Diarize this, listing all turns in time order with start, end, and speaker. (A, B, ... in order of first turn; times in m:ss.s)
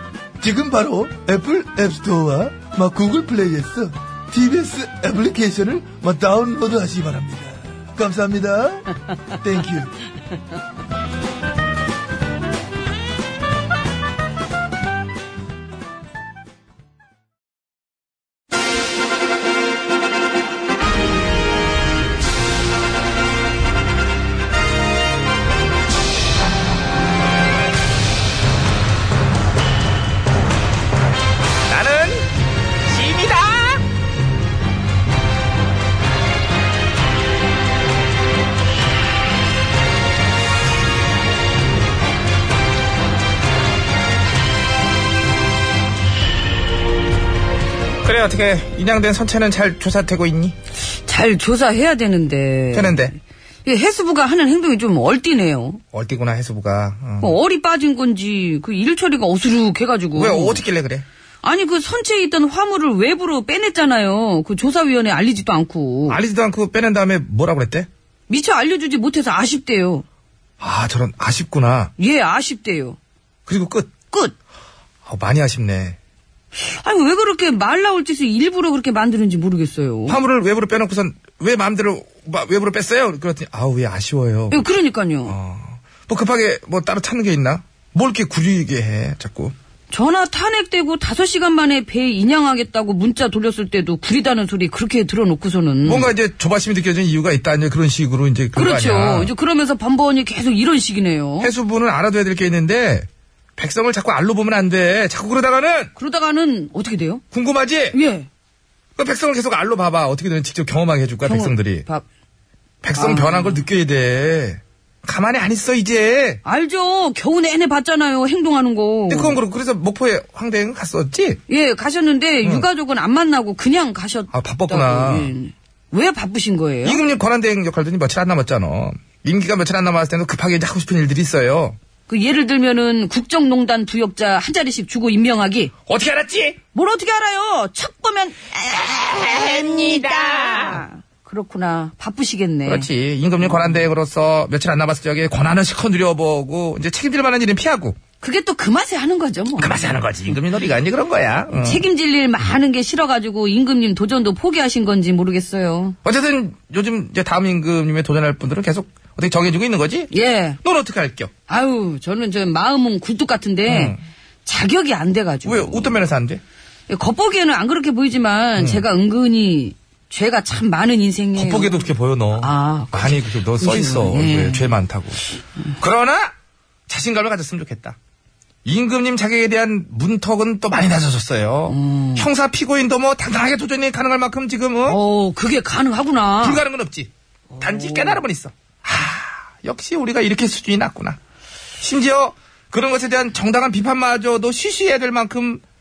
0:00.4-0:10.0 A
0:31.7-0:32.3 B
0:32.8-0:33.8 B
0:48.0-0:50.5 B
0:50.9-0:53.1 C
0:52.7-0:53.1 B
0:53.6-0:55.8 C
0:55.9-0:57.4 B
0:57.2-1:00.6 C
1:00.1-1:01.0 B
1:01.4-1:06.2 C
1:06.1-1:07.9 B
1:08.3-1:10.0 C
1:10.6-1:11.9 B
1:12.0-1:13.0 C
1:13.5-1:13.9 B
1:15.0-1:16.0 B
1:16.5-1:20.2 C
1:20.1-1:24.6 B
1:24.5-1:25.4 C
1:25.3-1:29.5 B
1:29.9-1:36.1 C
1:35.8-1:39.3 B
1:38.5-1:41.5 C
1:41.4-1:45.9 B
1:46.0-1:47.2 C
1:47.3-1:48.0 B
1:47.9-1:48.3 C
1:49.0-1:51.8 B
1:51.2-1:52.0 C
1:52.8-1:56.4 B
1:52.9-1:53.6 C
1:56.4-1:59.4 C
1:59.1-2:01.4 B
2:01.5-2:07.0 C
2:04.3-2:05.3 B
2:06.8-2:11.8 B
2:12.1-2:15.7 C
2:15.9-2:16.6 B
2:16.7-2:22.9 C
2:18.8-2:20.8 B
2:22.6-2:28.0 B
2:28.2-2:30.0 C
2:29.6-2:31.8 B
2:31.5-2:36.0 C
2:36.0-2:40.1 B
2:40.1-2:40.6 C
2:40.6-2:41.3 B
2:41.5-2:46.0 C
2:43.6-2:44.0 B
2:45.4-2:46.4 B
2:46.9-2:54.7 C
2:48.6-2:48.8 B
2:51.3-2:56.3 B
2:56.9-2:58.0 B
2:58.6-3:05.0 B
3:01.7-3:02.3 C
3:04.8-3:06.6 C
3:06.4-3:11.2 B
3:07.6-3:08.2 C
3:11.8-3:15.6 B